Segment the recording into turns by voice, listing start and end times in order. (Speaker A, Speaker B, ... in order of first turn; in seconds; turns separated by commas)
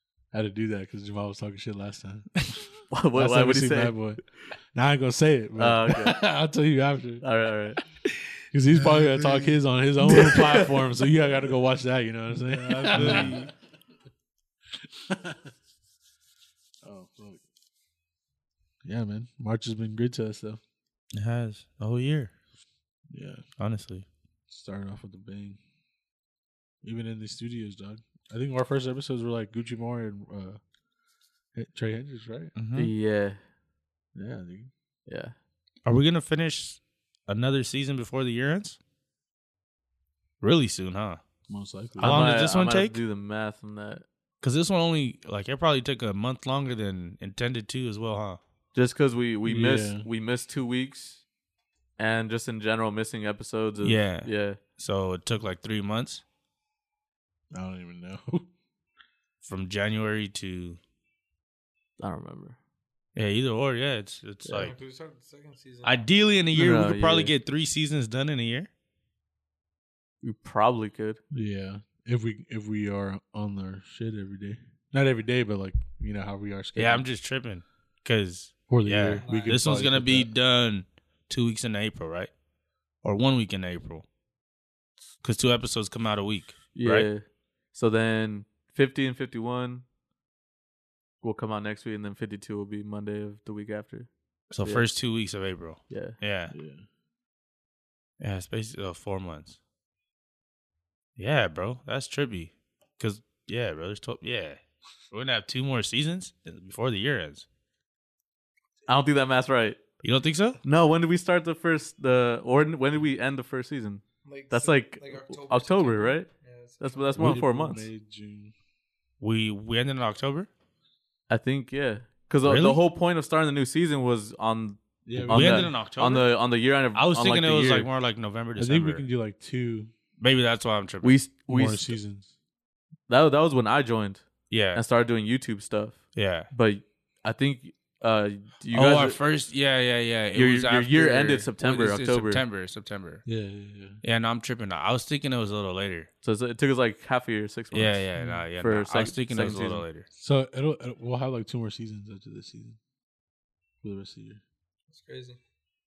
Speaker A: 0.3-2.3, Speaker B: 2.9-4.0, Speaker A: 3.1-7.2, Speaker B: 5.6-6.2, Speaker B: 7.2-7.8, Speaker A: 8.5-13.4, Speaker C: 8.8-9.6, Speaker B: 10.1-10.8, Speaker C: 12.3-13.5, Speaker A: 15.0-15.5, Speaker A: 16.8-17.4, Speaker A: 18.8-20.6, Speaker C: 21.1-22.3, Speaker A: 23.1-23.4, Speaker C: 23.6-24.1, Speaker A: 24.5-25.6, Speaker A: 26.8-30.6, Speaker A: 31.6-32.5, Speaker C: 32.6-32.9, Speaker B: 32.8-33.4, Speaker A: 34.1-34.7, Speaker B: 35.1-35.4, Speaker C: 35.8-38.8, Speaker C: 40.4-41.2, Speaker A: 41.5-42.3, Speaker C: 42.0-43.0, Speaker B: 42.0-44.0, Speaker C: 44.4-48.4, Speaker B: 48.8-51.2, Speaker A: 49.5-50.1, Speaker B: 52.0-54.6, Speaker C: 53.8-56.2, Speaker A: 57.5-58.5, Speaker C: 59.4-60.8, Speaker B: 62.0-62.6, Speaker C: 63.1-64.8, Speaker D: 64.5-66.0, Speaker C: 65.8-68.7, Speaker B: 66.5-67.3, Speaker B: 70.2-71.2, Speaker A: 71.3-77.1, Speaker C: 76.8-82.3, Speaker A: 78.7-80.3, Speaker D: 79.2-79.6, Speaker C: 83.0-84.1, Speaker C: 85.2-87.1, Speaker B: 86.7-89.8, Speaker B: 91.2-94.1, Speaker C: 94.5-96.5, Speaker B: 95.9-96.2, Speaker A: 96.5-96.8, Speaker C: 98.2-99.6, Speaker C: 101.2-107.5, Speaker B: 108.9-109.8, Speaker C: 110.0-110.6, Speaker B: 110.6-117.9, Speaker D: 114.2-117.3, Speaker A: 117.2-118.5, Speaker C: 119.2-120.5, Speaker B: 121.3-127.9, Speaker C: 122.4-122.8, Speaker A: 125.1-125.7, Speaker C: 125.3-126.3, Speaker C: 126.9-129.1, Speaker A: 128.6-129.9, Speaker C: 130.2-131.2, Speaker B: 131.0-131.9, Speaker A: 131.5-132.3, Speaker B: 133.1-139.2, Speaker C: 134.5-134.8, Speaker C: 136.2-136.5, Speaker C: 138.7-143.2, Speaker B: 140.3-142.4, Speaker A: 143.3-144.0, Speaker C: 144.0-146.1, Speaker B: 146.2-149.8, Speaker C: 147.7-150.1, Speaker A: 148.2-148.4, Speaker A: 150.2-152.8, Speaker A: 153.8-154.4, Speaker D: 154.9-155.4